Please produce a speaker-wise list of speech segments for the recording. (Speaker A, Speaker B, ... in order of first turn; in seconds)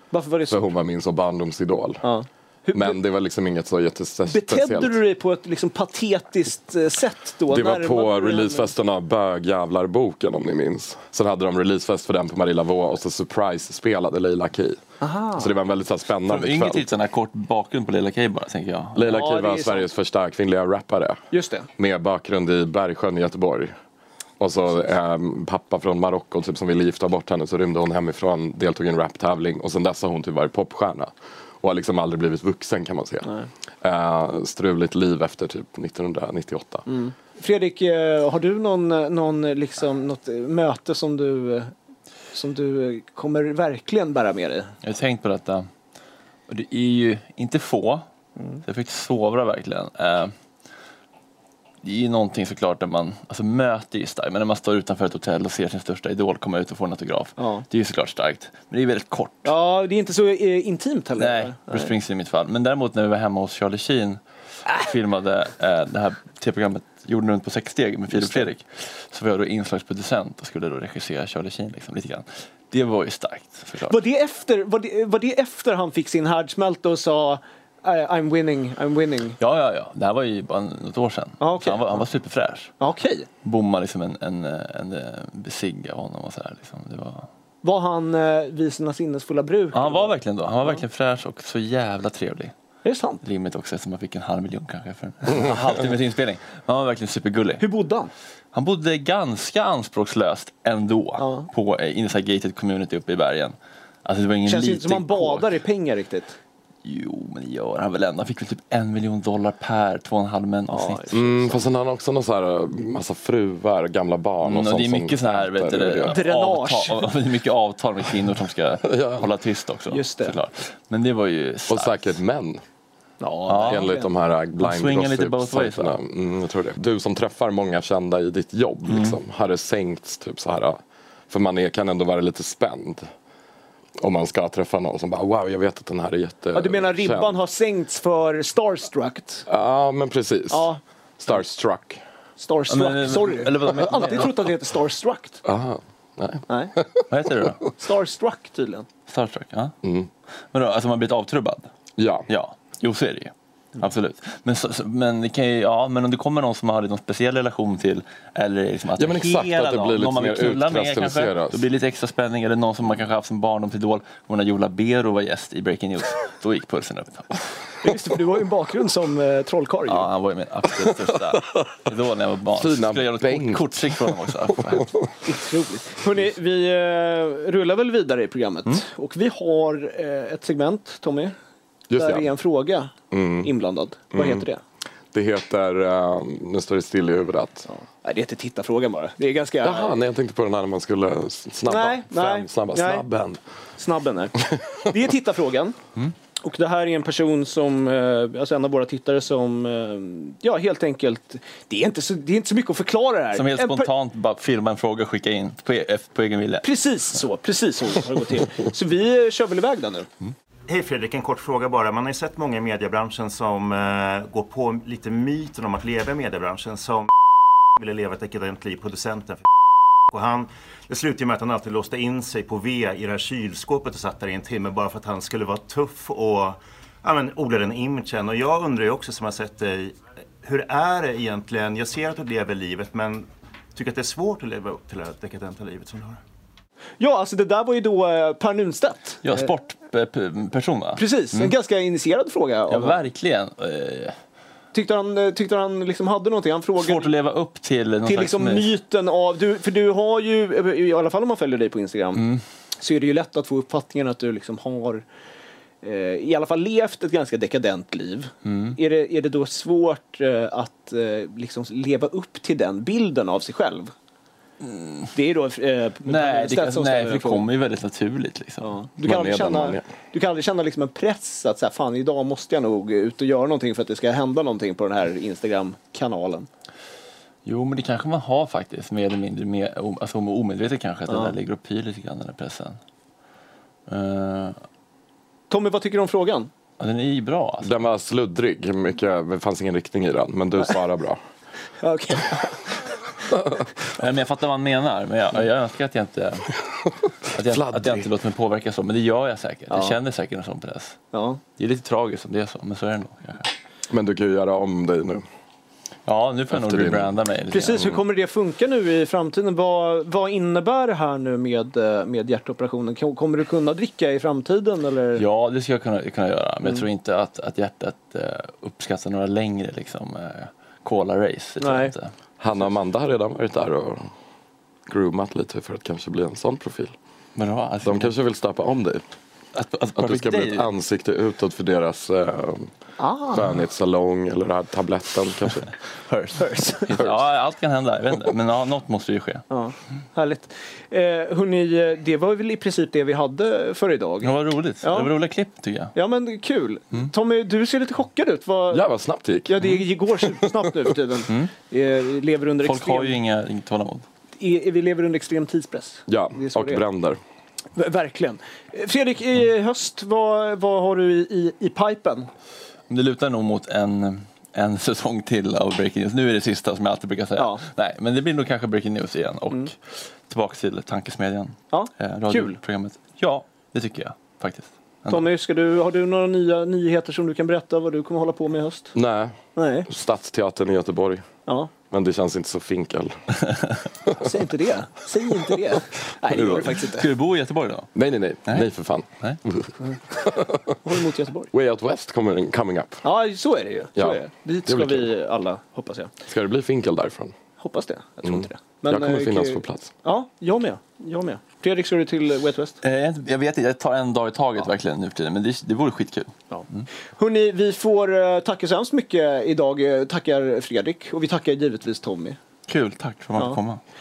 Speaker A: 0.1-0.7, 2.0-3.0, 4.3-8.7, 15.0-15.5, 19.1-19.9, 21.3-21.7, 36.9-41.7, 42.3-44.7, 57.4-57.6, 59.5-61.9, 73.9-79.4, 81.4-82.0, 82.8-83.3, 87.6-90.1, 92.8-93.2, 97.6-98.1, 101.2-101.5, 104.5-106.4, 110.7-111.4, 116.1-117.1, 119.9-120.4, 123.2-124.1, 136.5-139.5, 140.5-140.8, 142.4-145.4, 146.5-146.7, 147.8-148.9, 167.8-170.1, 175.2-181.3, 181.9-184.6, 187.7-189.9, 191.7-193.1, 193.8-195.8, 196.4-203.9, 206.6-210.1, 237.0-239.5, 241.0-243.0, 244.7-247.1, 248.1-252.2, 252.8-255.0, 255.8-263.9, 265.1-267.4, 268.6-276.5, 285.5-286.5, 291.8-292.7, 299.7-300.0, 301.1-301.4, 307.5-315.2, 321.6-321.9, 333.0-333.5, 336.4-337.0, 339.5-344.3, 344.8-345.1, 345.9-348.9, 349.5-353.2, 354.4-356.8, 357.8-362.3, 367.4-367.6, 371.7-372.6, 375.1-378.9, 379.6-379.9, 384.2-387.1, 390.8-391.5, 393.0-396.1, 397.6-402.8, 407.2-412.4
Speaker B: 0.5-2.1, 2.7-5.0, 7.5-14.8, 15.3-16.9, 18.9-21.2, 21.8-23.7, 24.4-33.3, 33.8-36.9, 111.1-116.2, 118.9-119.2, 121.7-122.6, 123.7-133.1, 134.0-137.4, 139.5-142.0, 145.4-147.5, 149.8-150.1, 152.0-152.3, 159.0-161.6, 172.6-175.0, 181.9-182.3, 183.1-183.5, 184.1-184.4, 185.1-187.7, 189.6-193.4, 269.0-269.9, 287.6-291.2, 297.4-298.1, 303.9-305.2, 306.5-307.1, 322.4-324.1, 324.9-326.9, 327.8-329.1, 330.0-332.7, 333.3-335.7, 348.7-349.5, 356.1-357.2, 378.9-381.2, 381.9-383.2, 386.2-386.7, 387.9-390.8, 391.5-393.0, 394.0-395.1, 396.3-397.4, 398.2-399.9
Speaker C: 16.3-19.1, 44.8-45.7, 46.5-48.0, 48.6-50.3, 51.8-59.5, 61.2-64.2, 64.7-74.0, 79.4-82.7, 83.4-87.3, 89.7-92.5, 93.2-97.7, 98.5-105.6, 106.8-111.2, 114.4-122.2, 123.5-123.9, 124.6-126.0, 128.9-129.2, 142.7-144.4, 147.1-147.7, 149.1-149.7, 150.5-151.7, 152.3-167.4, 169.9-174.9, 203.3-206.7, 239.2-241.5, 242.7-244.2, 246.8-248.8, 252.2-252.4, 258.4-258.8, 264.6-265.1, 266.1-268.7, 277.5-282.8, 283.9-284.6, 286.8-287.8, 293.9-296.5, 297.3-301.0, 301.6-303.5, 306.1-307.9, 315.2-322.1, 327.4-328.1, 329.6-330.7, 336.1-339.4, 344.2-345.9, 352.6-354.1, 362.9-375.3, 386.8-387.9, 402.8-406.9, 412.7-413.8
Speaker D: 210.7-217.1, 217.8-219.4, 220.1-236.2